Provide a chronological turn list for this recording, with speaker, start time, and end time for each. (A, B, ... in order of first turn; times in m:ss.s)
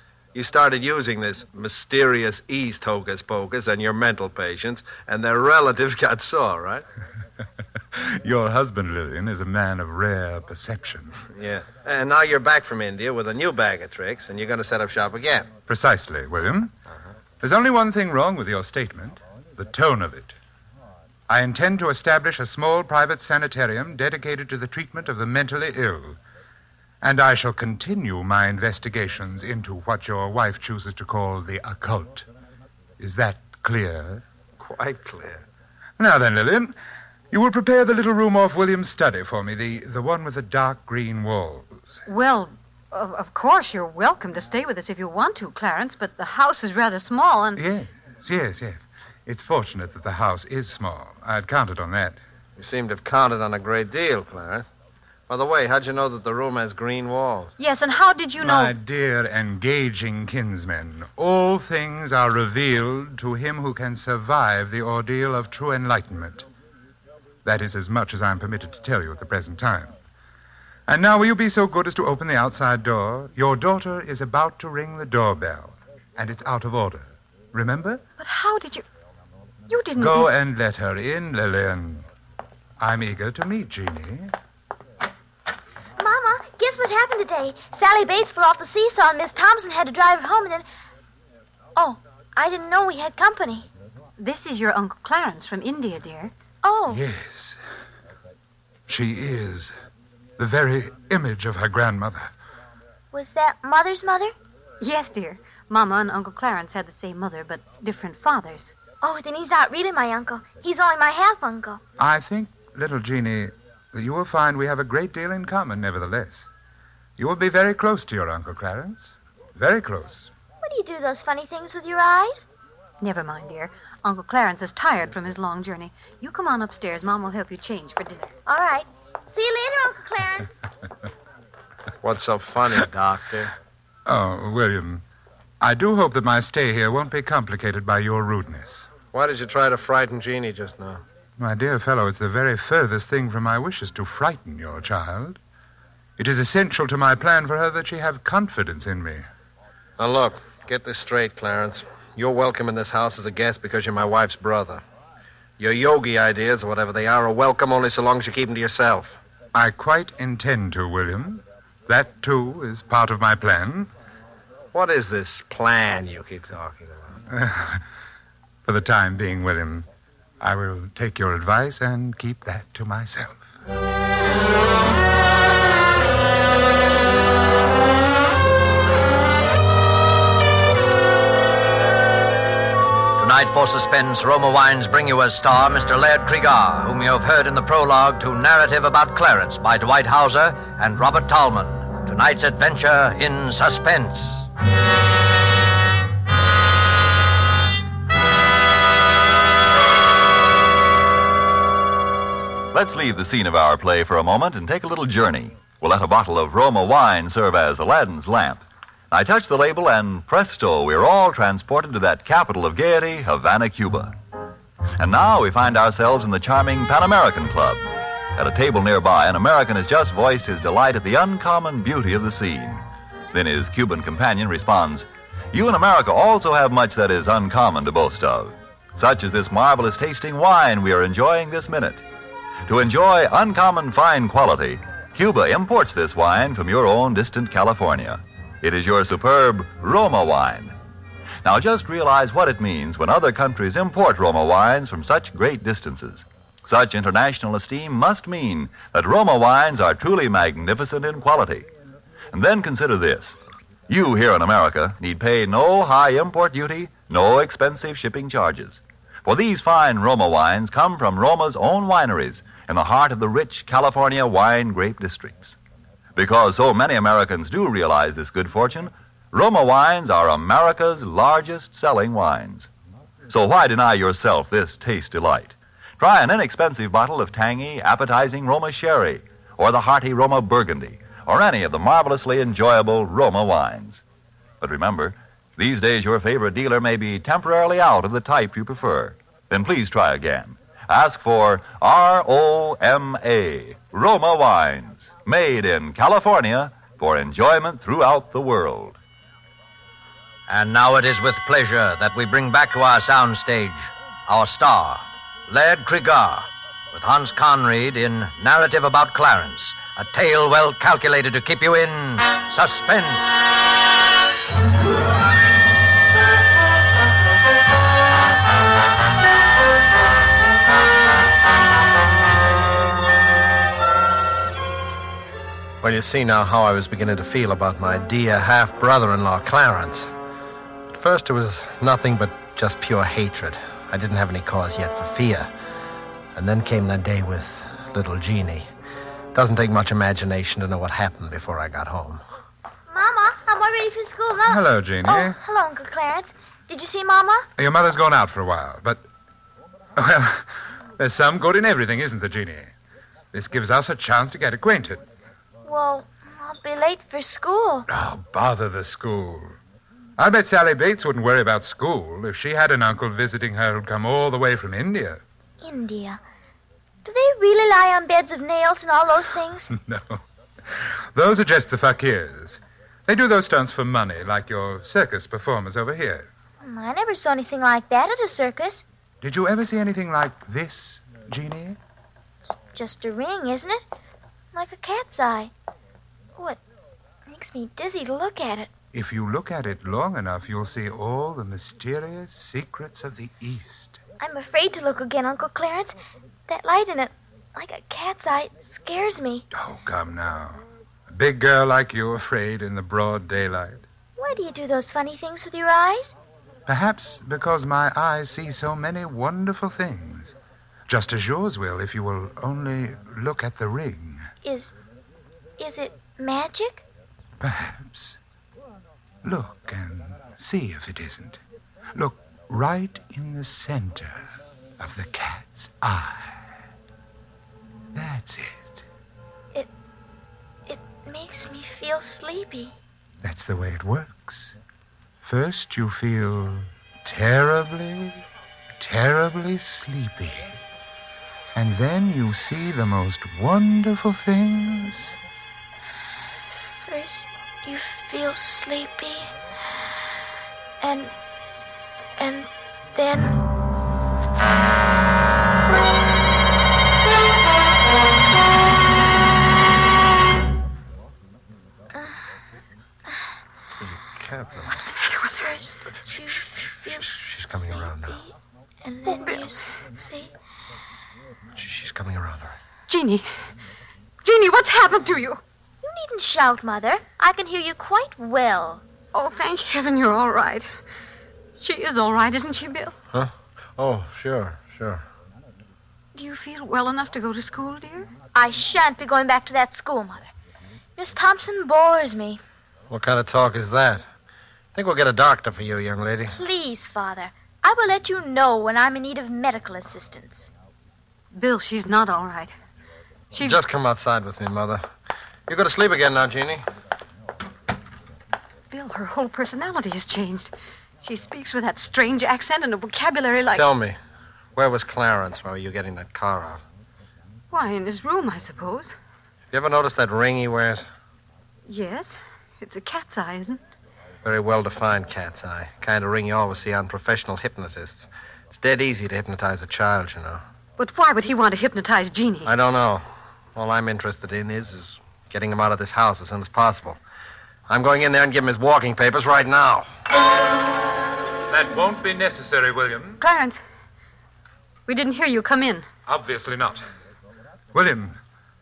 0:00.3-0:06.8 A
0:07.9-0:11.2 B
0:11.3-0:15.5 A
0:15.7-0:16.7 B
0:17.4-0:20.4 B
0:21.3-0:26.2 B
0:27.0-0:32.3 B
0:33.0-0:34.2 B
0:34.6-0:35.4 A
0:36.0-0:36.8 B
0:37.3-0:42.0 B
0:42.0-0:47.6 C
0:47.6-0:52.2 B
0:52.6-0:54.7 A
0:55.3-0:57.5 A
0:57.6-0:58.7 C
0:58.4-1:06.5 B
1:07.4-1:09.9 B
1:10.9-1:18.0 B
1:18.2-1:18.8 C
1:19.7-1:20.3 C
1:20.0-1:22.1 B
1:22.8-1:24.3 B
1:26.0-1:30.6 D
1:31.8-1:33.7 D
1:34.2-1:36.3 C
1:36.6-1:37.0 D
1:36.9-1:37.6 B
1:38.9-1:39.7 B
1:40.4-1:42.3 B
1:43.1-1:44.3 D
1:44.8-1:48.7 C
1:49.0-1:51.8 D
1:52.0-1:56.5 B
1:57.2-2:00.3 B
2:00.6-2:02.4 D
2:03.0-2:08.4 C
2:08.4-2:10.6 D
2:12.0-2:13.5 A
2:14.0-2:15.0 B
2:15.6-2:18.9 B
2:19.1-2:21.0 A
2:21.4-2:25.4 B
2:26.2-2:29.3 B
2:30.0-2:34.8 A
2:35.6-2:39.2 A
2:39.5-2:43.9 B
2:44.7-2:47.2 A
2:47.3-2:47.8 B
2:48.6-2:49.9 B
2:50.4-2:53.5 B
3:03.2-3:14.5 E
3:22.7-3:34.1 F
3:35.0-3:37.8 F
3:38.4-3:52.0 F
3:52.7-4:00.7 F
4:01.4-4:11.7 F
4:12.3-4:13.4 F
4:13.9-4:25.6 F
4:26.1-4:32.7 F
4:33.3-4:44.0 F
4:44.6-4:59.0 F
5:00.5-5:13.3 E
5:25.8-5:30.1 A
5:30.9-5:35.5 A
5:36.3-5:38.7 A
5:39.3-5:42.2 A
5:42.9-5:47.5 D
5:44.4-5:45.4 B
5:47.6-5:49.0 B
5:50.0-5:52.7 B
5:53.3-5:55.0 B
5:55.6-5:57.9 D
5:57.9-5:59.6 B
6:00.2-6:05.2 B
6:05.6-6:06.2 D
6:07.0-6:09.7 D
6:09.7-6:16.3 B
6:16.6-6:18.8 D
6:19.2-6:21.8 B
6:22.6-6:23.9 D
6:24.5-6:25.5 D
6:27.3-6:28.7 D
6:28.9-6:34.0 B
6:34.2-6:36.0 D
6:36.5-6:39.4 D
6:39.5-6:43.9 B
6:44.2-6:46.1 D
6:46.7-6:50.3 B
6:50.9-6:54.3 B
6:54.4-6:54.7 D
6:55.6-6:56.8 D
6:57.4-6:58.2 B
6:59.2-7:01.4 B
7:01.9-7:04.2 B
7:04.8-7:06.4 B
7:07.9-7:08.8 B
7:10.7-7:12.7 D
7:13.2-7:14.5 B
7:15.2-7:18.2 B
7:18.8-7:20.6 B
7:21.5-7:25.1 B
7:26.8-7:29.3 D
7:30.8-7:31.1 D
7:32.2-7:33.4 D
7:43.8-7:44.8 A
7:44.7-7:45.6 C
7:45.4-7:48.3 D
7:45.9-7:48.2 A
7:48.8-7:50.3 D
7:49.0-7:49.7 C
7:51.5-7:52.5 A
7:52.9-7:53.3 C
7:54.2-7:55.4 C
7:55.8-7:58.8 D
7:59.1-8:00.7 C
8:01.6-8:03.0 C
8:03.1-8:05.0 A
8:06.1-8:08.1 C
8:08.3-8:10.3 D
8:11.0-8:12.4 D
8:12.9-8:14.0 A
8:14.7-8:16.3 A
8:16.3-8:20.5 D
8:21.3-8:22.5 C
8:23.3-8:24.8 A
8:23.3-8:23.6 C
8:25.5-8:26.6 A
8:28.7-8:33.7 C
8:33.5-8:34.0 A
8:34.6-8:36.6 A
8:37.5-8:38.9 C
8:39.5-8:40.8 A
8:41.7-8:43.6 C
8:44.2-8:50.4 A
8:50.8-8:52.5 C
8:52.4-8:57.0 A
8:57.7-8:59.9 A
9:01.5-9:03.2 B
9:03.2-9:03.6 C
9:04.9-9:05.9 C
9:06.1-9:06.8 B
9:07.7-9:08.2 B